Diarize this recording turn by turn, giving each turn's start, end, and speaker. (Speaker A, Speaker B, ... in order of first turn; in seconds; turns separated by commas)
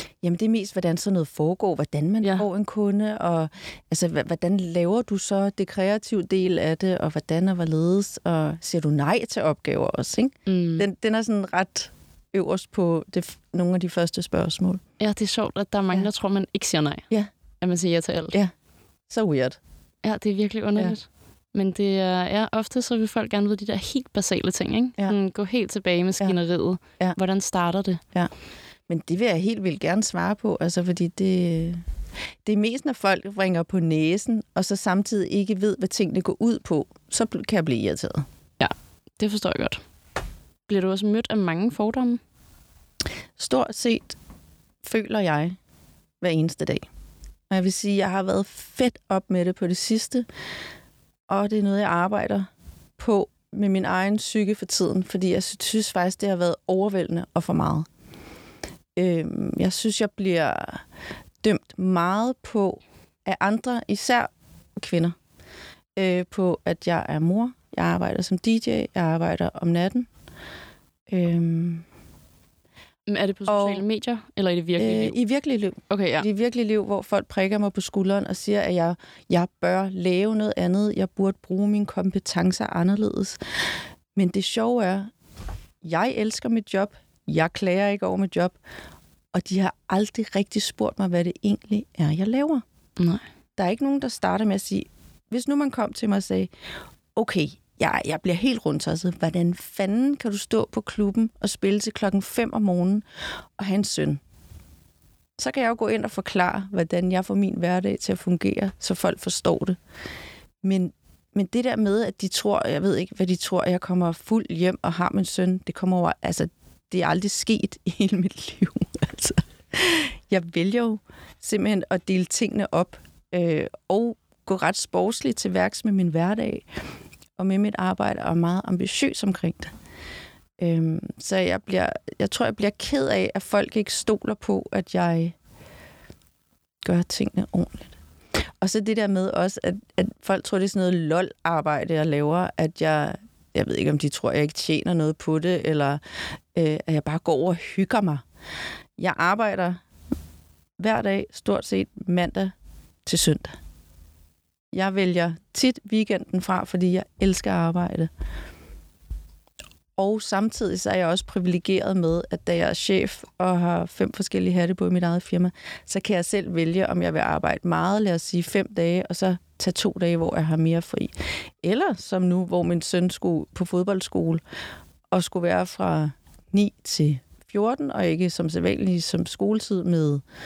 Speaker A: 0.2-14.8, Speaker B: 10.5-10.9, Speaker B: 15.0-17.1, Speaker B: 17.6-18.4, Speaker A: 19.1-19.6, Speaker B: 20.0-28.0, Speaker A: 28.9-31.8, Speaker A: 32.4-38.2, Speaker B: 38.6-39.8, Speaker B: 40.7-42.2, Speaker A: 43.4-44.2, Speaker A: 44.8-45.6, Speaker A: 46.2-46.9, Speaker A: 47.5-50.3, Speaker A: 51.3-57.9, Speaker A: 59.0-60.8, Speaker A: 61.4-65.2, Speaker A: 66.0-70.1, Speaker A: 71.1-71.8, Speaker B: 73.1-75.2, Speaker A: 73.5-73.8, Speaker A: 74.8-83.4, Speaker B: 75.9-76.3, Speaker A: 84.2-85.1, Speaker A: 85.8-88.6, Speaker A: 89.3-92.6, Speaker B: 93.0-93.2, Speaker A: 93.6-96.5, Speaker A: 97.2-103.0, Speaker A: 103.6-104.2, Speaker A: 105.4-109.8, Speaker A: 110.6-126.6, Speaker A: 127.4-129.7, Speaker A: 130.6-135.3, Speaker A: 136.8-137.9, Speaker A: 138.6-146.0, Speaker A: 146.5-148.2, Speaker A: 149.0-149.8, Speaker A: 150.8-152.5, Speaker A: 153.1-153.6, Speaker A: 154.7-158.1, Speaker A: 160.0-174.4, Speaker A: 175.1-180.2